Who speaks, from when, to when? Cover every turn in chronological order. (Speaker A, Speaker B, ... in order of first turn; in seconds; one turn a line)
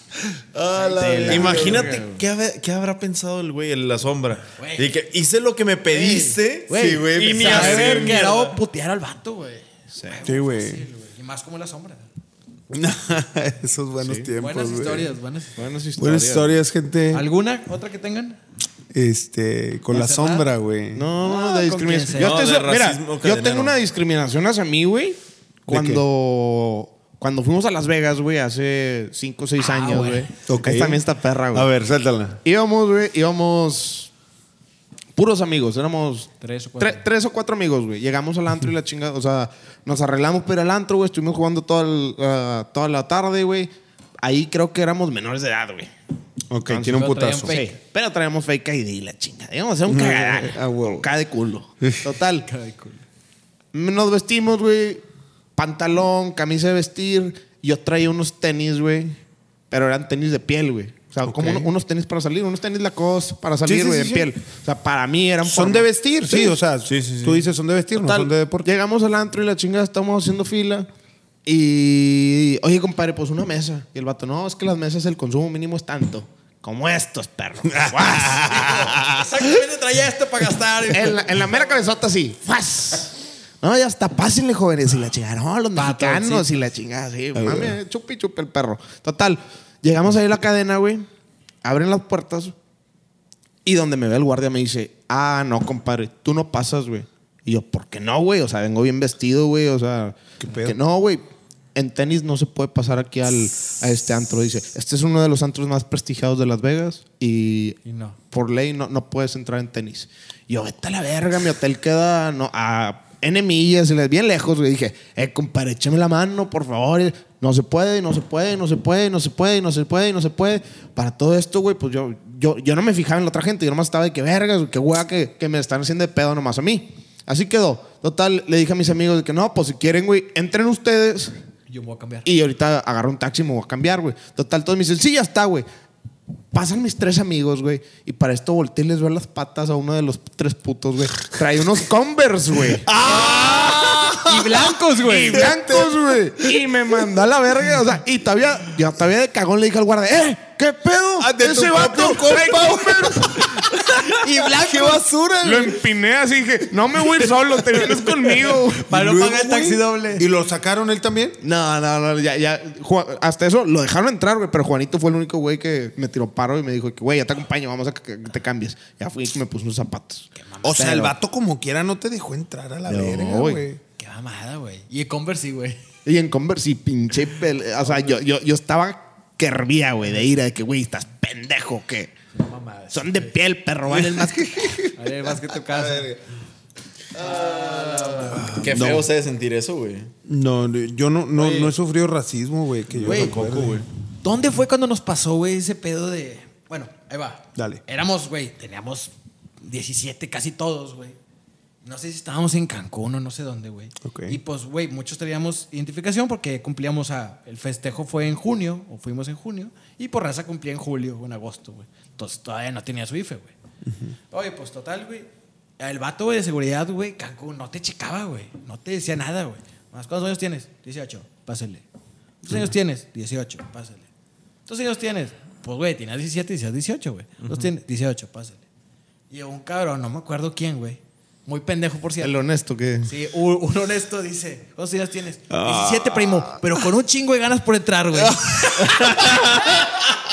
Speaker A: 0.7-2.2
Speaker B: 0.7-1.9
Speaker C: 0.9-1.9
Speaker D: 1.0-8.6
Speaker A: 4.6-4.9
Speaker A: 5.9-12.1
Speaker B: 6.7-8.2
Speaker B: 10.3-10.8
Speaker B: 12.7-15.1
Speaker C: 14.0-14.3
Speaker A: 14.4-15.6
Speaker C: 15.6-16.6
Speaker B: 16.0-17.3
Speaker A: 17.1-18.4
Speaker B: 18.9-21.1
Speaker A: 19.9-20.5
Speaker C: 20.9-31.7
Speaker A: 21.2-22.4
Speaker D: 22.2-23.8
Speaker B: 25.7-26.0
Speaker A: 29.6-30.3
Speaker B: 30.5-31.0
Speaker B: 31.5-32.4
Speaker C: 32.4-34.1
Speaker C: 35.1-45.9
Speaker A: 36.4-37.0
Speaker B: 46.5-47.6
Speaker C: 46.6-52.5
Speaker A: 46.9-47.8
Speaker B: 49.9-51.1
Speaker A: 52.5-53.0
Speaker C: 53.7-55.0
Speaker C: 55.6-59.2
Speaker C: 59.7-66.5
Speaker B: 61.3-61.7
Speaker B: 63.6-64.3
Speaker B: 65.4-68.7
Speaker D: 66.9-67.5
Speaker C: 68.0-70.9
Speaker C: 71.5-79.0
Speaker B: 77.7-79.3
Speaker A: 78.4-81.8
Speaker C: 80.9-91.1
Speaker A: 85.8-86.6
Speaker B: 87.3-87.8
Speaker C: 91.6-92.5
Speaker C: 93.7-107.8
Speaker B: 100.4-100.8
Speaker A: 107.8-108.2
Speaker C: 108.3-131.3
Speaker A: 131.7-132.3
Speaker C: 132.2-135.7
Speaker C: 136.5-142.9
Speaker B: 142.7-146.6
Speaker A: 143.0-145.5
Speaker C: 145.0-153.7
Speaker B: 151.2-155.8
Speaker A: 154.2-155.7
Speaker C: 155.4-158.9
Speaker A: 158.4-160.3
Speaker B: 158.5-161.4
Speaker C: 161.4-171.2
Speaker A: 170.4-171.0
Speaker B: 170.6-173.8
Speaker C: 172.9-173.6
Speaker A: 174.0-175.8
Speaker C: 176.1-182.1
Speaker A: 177.8-178.2
Speaker A: 182.3-183.3
Speaker C: 182.9-184.8
Speaker B: 183.9-186.2
Speaker A: 184.9-186.1
Speaker A: 187.2-188.6
Speaker D: 187.5-190.1
Speaker B: 188.3-189.1
Speaker B: 190.3-193.8
Speaker D: 191.4-191.7
Speaker D: 192.9-193.8
Speaker A: 193.1-193.7
Speaker A: 194.2-201.2
Speaker B: 197.6-197.8
Speaker A: 201.8-213.5
Speaker B: 204.0-204.4
Speaker B: 213.8-214.2
Speaker A: 214.3-215.3
Speaker A: 215.8-221.8
Speaker A: 222.4-224.1
Speaker A: 224.7-228.6
Speaker A: 229.3-232.3
Speaker C: 232.2-233.1
Speaker A: 233.1-239.7
Speaker B: 235.5-236.8
Speaker B: 238.2-240.1